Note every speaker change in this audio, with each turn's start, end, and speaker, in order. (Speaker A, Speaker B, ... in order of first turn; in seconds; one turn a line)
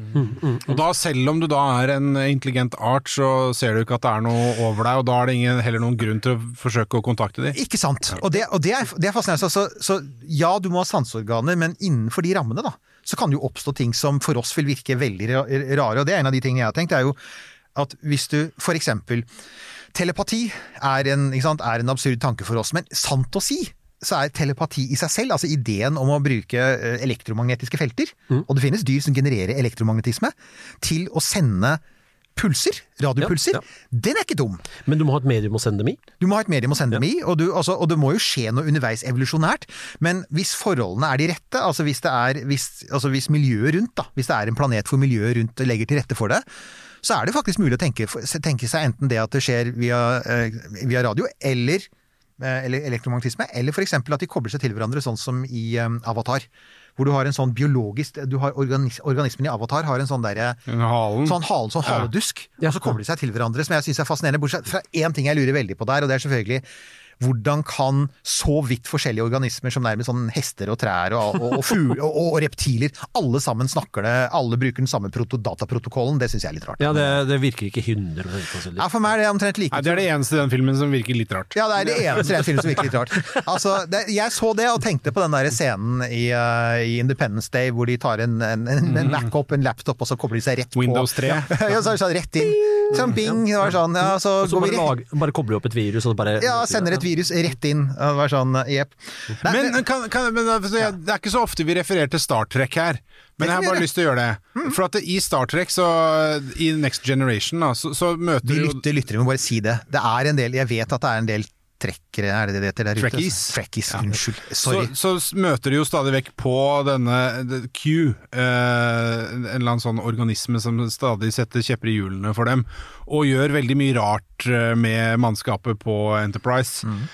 Speaker A: 0.1-0.7
Speaker B: 0.7-7.6
Speaker C: 7.5-17.2
Speaker C: 17.7-19.3
Speaker C: 19.9-31.8
Speaker C: 32.4-34.7
Speaker A: 33.2-33.6
Speaker A: 34.8-36.0
Speaker C: 36.2-46.5
Speaker C: 47.0-60.6
Speaker B: 60.7-62.1
Speaker C: 61.2-66.6
Speaker A: 62.6-62.9
Speaker C: 67.2-77.2
Speaker A: 76.8-78.9
Speaker C: 78.8-80.1
Speaker B: 79.7-82.3
Speaker C: 81.5-94.9
Speaker B: 90.8-91.5
Speaker A: 92.9-97.0
Speaker C: 96.4-99.8
Speaker B: 99.5-108.8
Speaker C: 103.4-103.9
Speaker C: 108.4-114.9
Speaker B: 113.0-126.9